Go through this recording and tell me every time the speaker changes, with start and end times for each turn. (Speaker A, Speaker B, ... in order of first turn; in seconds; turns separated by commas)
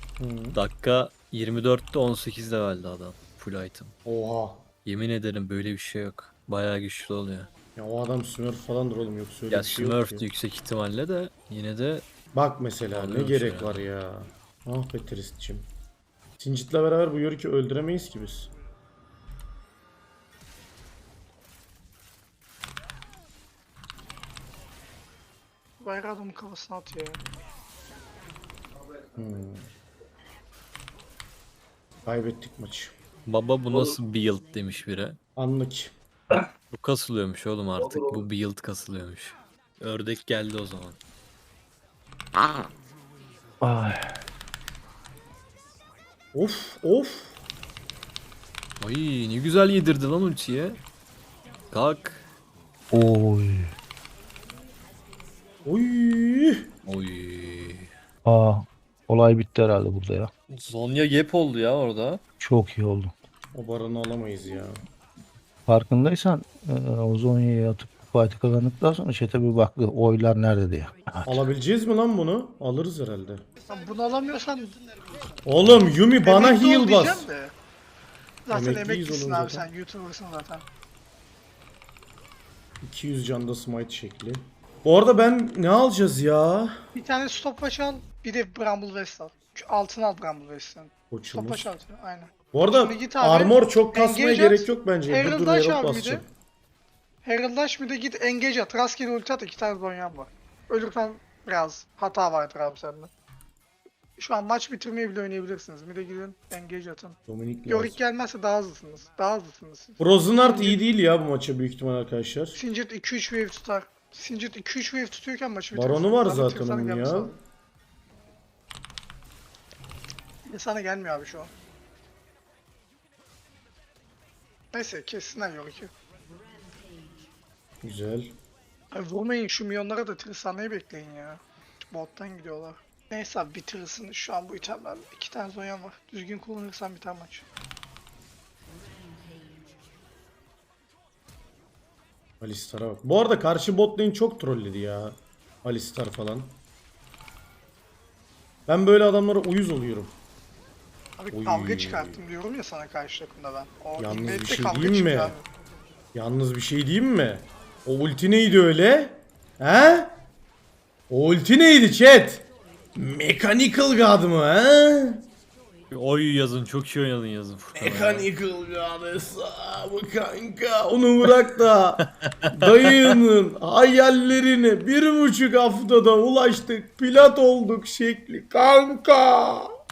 Speaker A: 0.2-0.6, Speaker B: 0.5-3.9, Speaker A: 4.0-4.7, Speaker B: 4.8-7.5, Speaker A: 7.8-10.2, Speaker B: 9.5-12.1, Speaker A: 12.3-15.7, Speaker B: 12.9-13.8, Speaker A: 16.4-18.5, Speaker C: 25.8-27.2, Speaker A: 29.1-29.7, Speaker A: 32.0-32.9, Speaker B: 33.2-35.2, Speaker A: 35.4-35.9, Speaker B: 36.7-41.0, Speaker D: 37.8-38.2, Speaker D: 43.6-44.2, Speaker A: 46.3-47.4, Speaker B: 48.8-50.8, Speaker B: 51.7-52.2, Speaker D: 52.9-53.7, Speaker A: 55.6-56.7, Speaker B: 56.8-57.9, Speaker D: 58.2-60.3, Speaker B: 60.5-62.2, Speaker D: 62.4-63.1, Speaker A: 63.5-64.8, Speaker D: 65.7-71.4, Speaker A: 71.2-73.4, Speaker C: 73.7-74.8, Speaker A: 75.4-77.3, Speaker C: 76.2-77.5, Speaker C: 78.5-80.6, Speaker A: 78.5-79.7, Speaker A: 82.8-86.8, Speaker C: 86.9-96.2, Speaker A: 91.1-91.7, Speaker A: 92.5-96.3, Speaker C: 97.2-103.1, Speaker C: 104.2-110.8, Speaker A: 107.3-108.0, Speaker A: 110.0-112.6, Speaker C: 112.5-117.3, Speaker A: 115.7-117.4, Speaker C: 120.5-121.5, Speaker C: 124.7-125.9, Speaker A: 127.8-128.3, Speaker C: 128.9-137.4, Speaker A: 142.4-146.6, Speaker A: 148.7-150.1, Speaker C: 151.2-155.4, Speaker A: 151.3-152.2, Speaker A: 154.0-155.3, Speaker A: 156.1-160.1, Speaker A: 161.1-165.2, Speaker B: 165.9-168.3, Speaker A: 167.8-179.7, Speaker B: 172.2-173.2